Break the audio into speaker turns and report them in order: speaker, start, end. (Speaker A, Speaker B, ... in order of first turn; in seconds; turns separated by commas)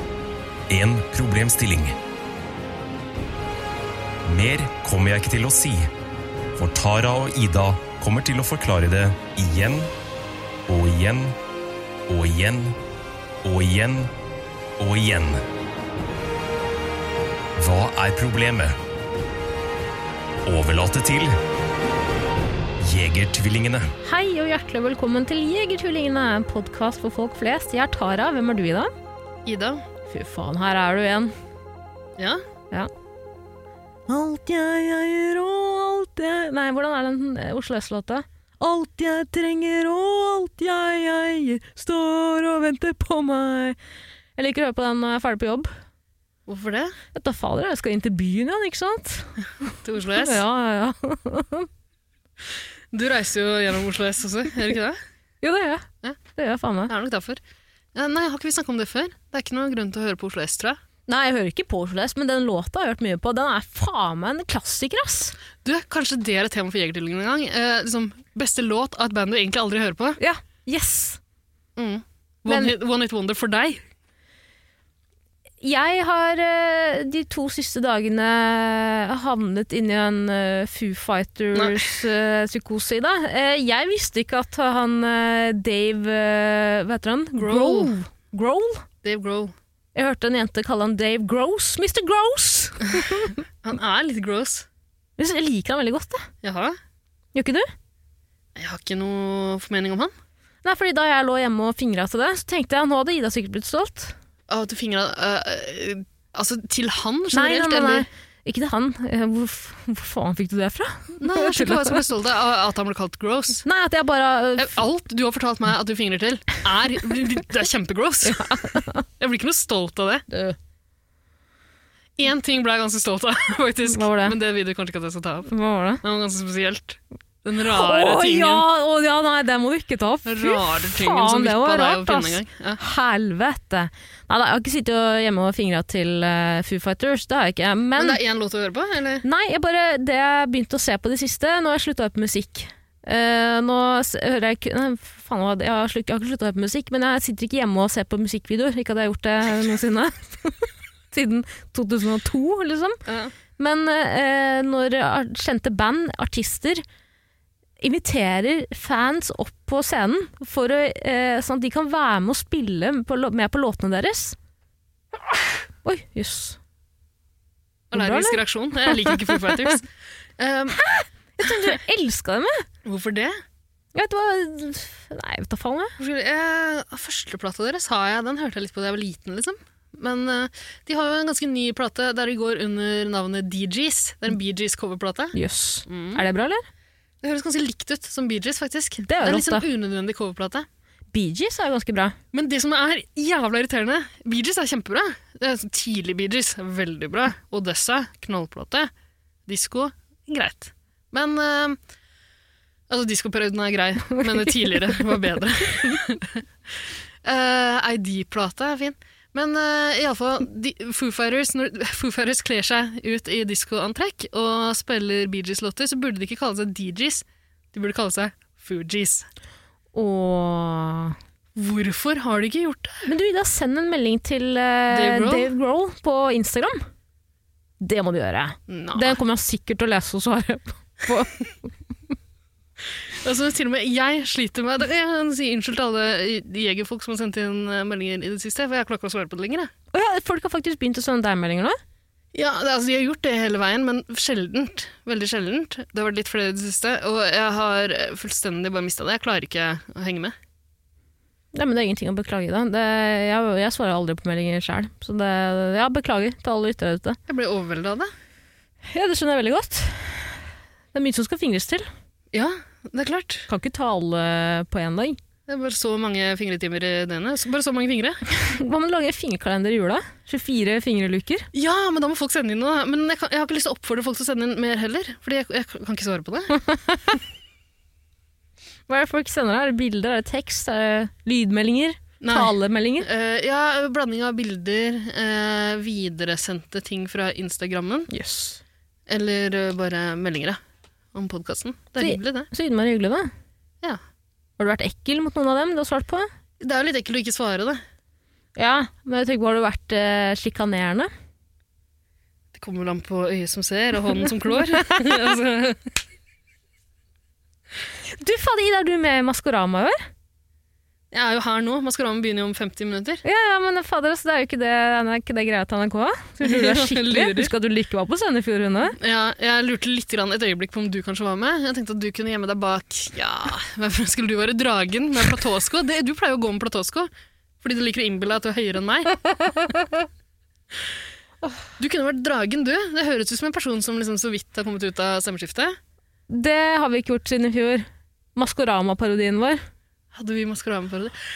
Speaker A: 0.7-2.0, Speaker A: 4.2-5.9, Speaker A: 6.5-9.9, Speaker A: 10.7-11.3, Speaker A: 12.1-12.8, Speaker A: 13.4-14.1, Speaker A: 14.8-15.4, Speaker A: 17.6-18.8, Speaker A: 20.4-21.3, Speaker A: 22.8-23.9, Speaker B: 24.0-28.9, Speaker C: 29.4-29.8, Speaker B: 30.1-31.3, Speaker B: 34.1-43.8, Speaker B: 44.4-45.7, Speaker C: 46.5-46.9, Speaker B: 47.1-49.4, Speaker C: 49.8-50.4, Speaker B: 50.1-51.7, Speaker C: 52.9-55.0, Speaker B: 55.4-55.8, Speaker B: 56.4-56.9, Speaker C: 56.9-57.4, Speaker C: 57.9-60.8, Speaker B: 61.1-65.3, Speaker C: 65.6-70.2, Speaker B: 70.2-71.2, Speaker C: 71.8-73.8, Speaker B: 72.5-72.7, Speaker B: 75.6-88.8, Speaker C: 81.5-82.0, Speaker C: 87.4-87.9, Speaker C: 89.0-89.5, Speaker B: 89.9-93.3, Speaker C: 93.6-94.7, Speaker B: 95.2-96.3, Speaker C: 96.4-96.8, Speaker B: 97.3-97.7, Speaker C: 98.5-100.1, Speaker B: 100.6-104.1, Speaker C: 104.5-108.1, Speaker B: 107.3-111.9, Speaker C: 111.2-113.6, Speaker B: 113.6-114.8, Speaker C: 114.6-118.6, Speaker B: 118.2-119.0, Speaker C: 119.2-120.2, Speaker B: 120.3-120.6, Speaker C: 122.2-128.6, Speaker B: 123.9-124.3, Speaker B: 125.5-126.0, Speaker B: 127.7-138.2, Speaker C: 130.2-132.8, Speaker C: 138.0-139.2, Speaker B: 139.2-153.0, Speaker C: 153.1-153.3, Speaker B: 153.6-156.8, Speaker B: 157.8-164.3, Speaker B: 165.8-166.6, Speaker C: 167.9-169.8, Speaker B: 167.9-168.9, Speaker C: 170.4-170.8, Speaker B: 170.8-172.6, Speaker C: 172.8-173.4, Speaker B: 173.9-175.9, Speaker C: 176.0-185.3, Speaker B: 185.3-186.7, Speaker C: 185.9-186.2, Speaker C: 187.2-190.7, Speaker B: 189.1-189.7, Speaker B: 191.1-192.1, Speaker C: 192.3-198.9, Speaker C: 199.5-201.8, Speaker C: 202.9-206.4, Speaker C: 207.2-219.3, Speaker B: 219.9-221.2, Speaker C: 221.6-223.1, Speaker B: 223.1-226.8, Speaker C: 224.9-225.5, Speaker B: 227.8-231.7, Speaker C: 228.7-229.2, Speaker C: 233.2-239.7, Speaker B: 239.9-241.8, Speaker C: 242.3-250.3, Speaker B: 251.5-257.2, Speaker C: 257.3-258.1, Speaker B: 258.9-260.4, Speaker B: 260.9-261.9, Speaker C: 262.3-263.5, Speaker B: 263.5-265.2, Speaker C: 265.5-268.2, Speaker B: 268.3-271.5, Speaker C: 271.5-276.6, Speaker B: 276.6-277.2, Speaker B: 278.9-283.1, Speaker C: 282.2-288.1, Speaker B: 288.1-288.6, Speaker C: 289.1-290.6, Speaker C: 291.1-292.5, Speaker B: 292.0-293.3, Speaker B: 294.6-296.3, Speaker C: 296.6-297.8, Speaker B: 298.6-301.1, Speaker C: 302.5-305.8, Speaker B: 308.2-310.0, Speaker C: 311.1-313.2, Speaker B: 313.2-318.9, Speaker C: 316.4-317.5, Speaker C: 319.0-327.1, Speaker C: 327.6-329.2, Speaker B: 329.5-329.8, Speaker C: 331.8-335.8, Speaker B: 336.3-339.6, Speaker C: 340.1-341.1